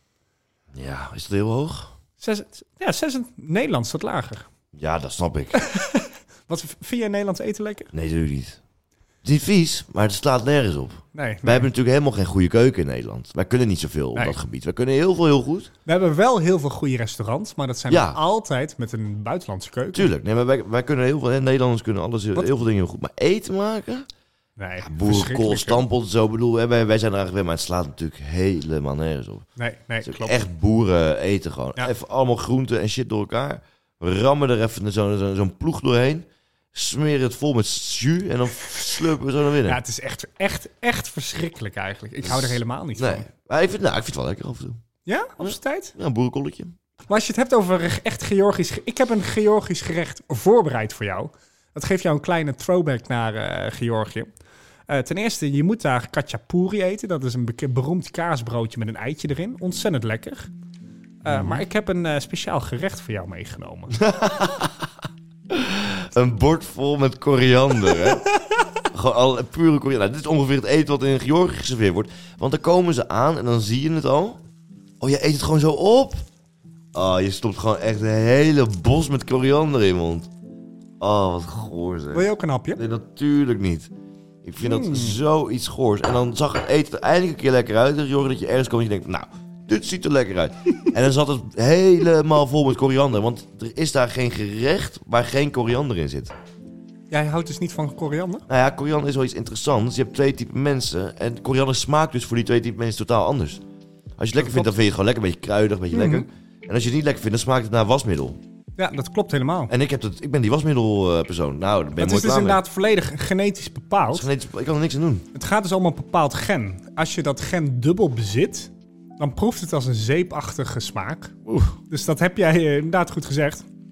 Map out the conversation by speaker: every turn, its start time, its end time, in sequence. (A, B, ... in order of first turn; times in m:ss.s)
0:00.7-0:01.9 A
0:02.2-0:04.5 B
0:04.7-0:05.6 A
0:05.6-0:07.9 B
0:07.9-0:08.6 A
0:09.2-0:15.7 A
0:11.1-0:11.7 B
0:15.9-0:20.1 B
0:17.9-0:18.2 A
0:19.9-0:24.1 A
0:24.6-0:25.8 B
0:24.8-0:29.5 A
0:29.6-0:30.4 B
0:30.0-0:39.8 A
0:39.7-0:43.3 B
0:42.2-0:44.8 A
0:45.1-0:45.9 B
0:45.4-0:46.7 A
0:47.1-0:54.3 B
0:54.9-1:00.5 B
1:01.2-1:04.0 B
1:01.3-1:01.6 A
1:03.9-1:04.9 A
1:05.5-1:08.2 A
1:08.9-1:14.4 A
1:15.0-1:16.3 A
1:16.9-1:20.3 A
1:21.0-1:23.9 A
1:22.1-1:22.8 B
1:24.4-1:36.3 A
1:24.6-1:25.2 B
1:37.1-1:38.4 B
1:38.5-1:43.6 A
1:44.2-1:48.4 A
1:44.4-1:44.7 B
1:45.9-1:46.3 B
1:48.8-1:49.7 B
1:49.7-1:52.6 A
1:52.0-1:54.3 B
1:54.1-1:55.3 A
1:55.3-2:01.4 B
2:01.5-2:01.8 A
2:01.9-2:03.7 B